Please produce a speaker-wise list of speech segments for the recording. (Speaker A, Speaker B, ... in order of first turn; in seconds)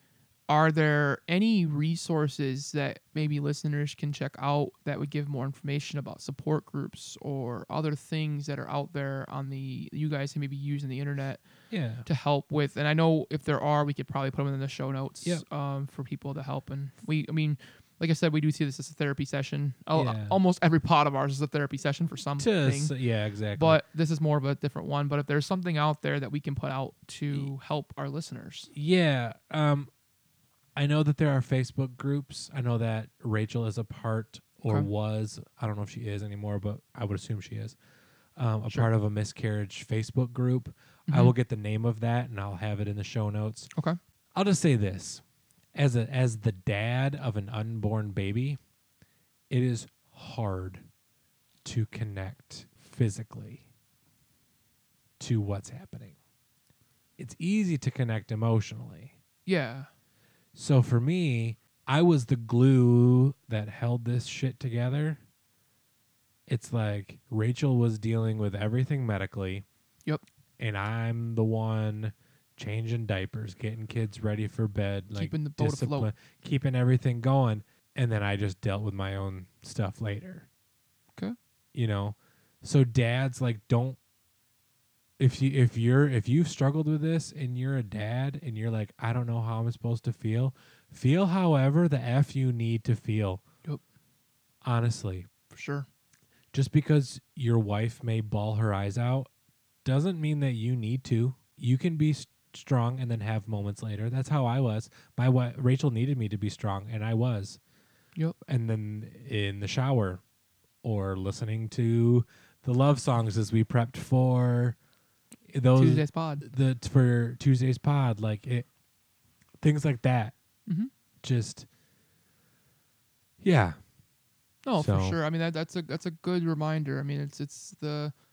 Speaker A: 0.5-11.4, 12.1-22.9, 23.6-28.7, 41.1-41.3, 59.5-59.9, 75.2-76.1, 95.5-95.9, 115.7-116.4, 124.7-128.1
Speaker B: 11.7-12.1, 19.9-20.4, 22.4-23.8, 28.7-29.9, 30.8-37.8, 38.4-43.7, 44.4-45.2, 45.8-48.6, 49.5-50.9, 51.6-53.6, 55.2-56.2, 57.2-59.2, 60.5-65.2, 66.5-69.7, 70.6-80.5, 81.7-84.0, 85.2-93.4, 94.6-95.3, 96.5-99.3, 99.8-107.6, 108.5-110.2, 110.8-114.8, 115.5-118.7, 119.6-120.3, 121.2-121.7, 123.4-123.8, 124.8-125.2